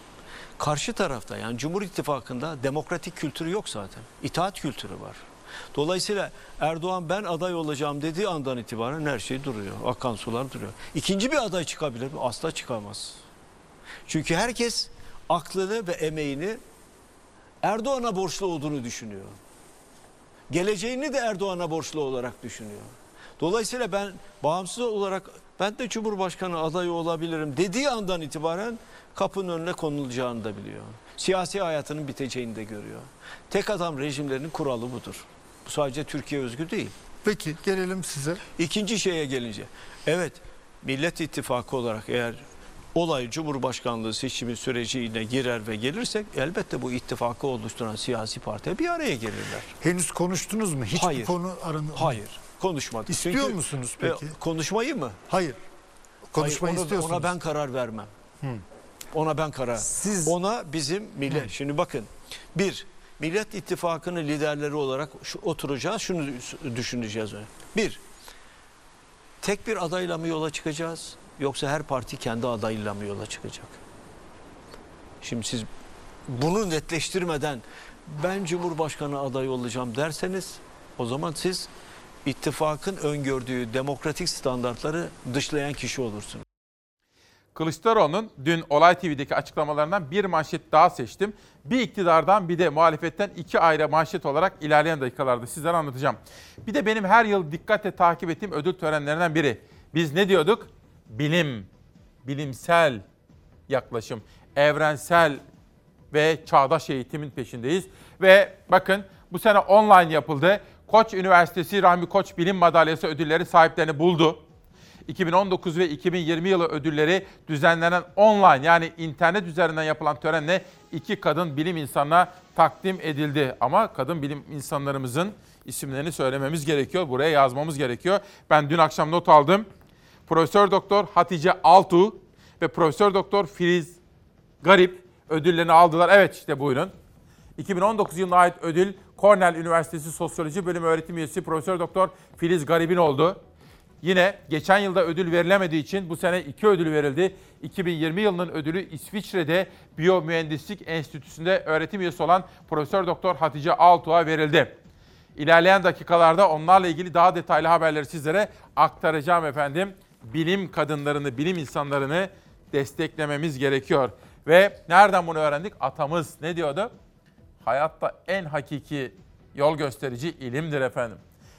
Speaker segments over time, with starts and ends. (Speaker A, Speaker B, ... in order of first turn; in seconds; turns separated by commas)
Speaker A: 0.6-13.2, Speaker A: 14.1-16.6, Speaker A: 17.6-19.4, Speaker A: 20.5-36.9, Speaker B: 37.2-38.4, Speaker A: 38.5-42.4, Speaker A: 42.9-49.7, Speaker B: 49.8-52.4, Speaker A: 50.9-51.4, Speaker A: 51.9-55.2, Speaker B: 53.1-54.4, Speaker B: 55.3-55.6, Speaker B: 56.3-57.3, Speaker A: 56.4-58.1, Speaker A: 59.1-68.0, Speaker B: 59.8-60.4, Speaker A: 69.4-73.8, Speaker A: 75.2-75.7, Speaker A: 76.3-81.7, Speaker A: 82.2-86.4, Speaker C: 87.5-101.7, Speaker C: 102.2-103.0, Speaker C: 103.7-105.4, Speaker C: 106.1-114.4, Speaker C: 115.1-129.7, Speaker C: 130.3-134.0, Speaker C: 134.6-136.9, Speaker C: 137.6-143.4, Speaker C: 144.0-154.8, Speaker C: 155.3-166.9, Speaker C: 167.6-171.2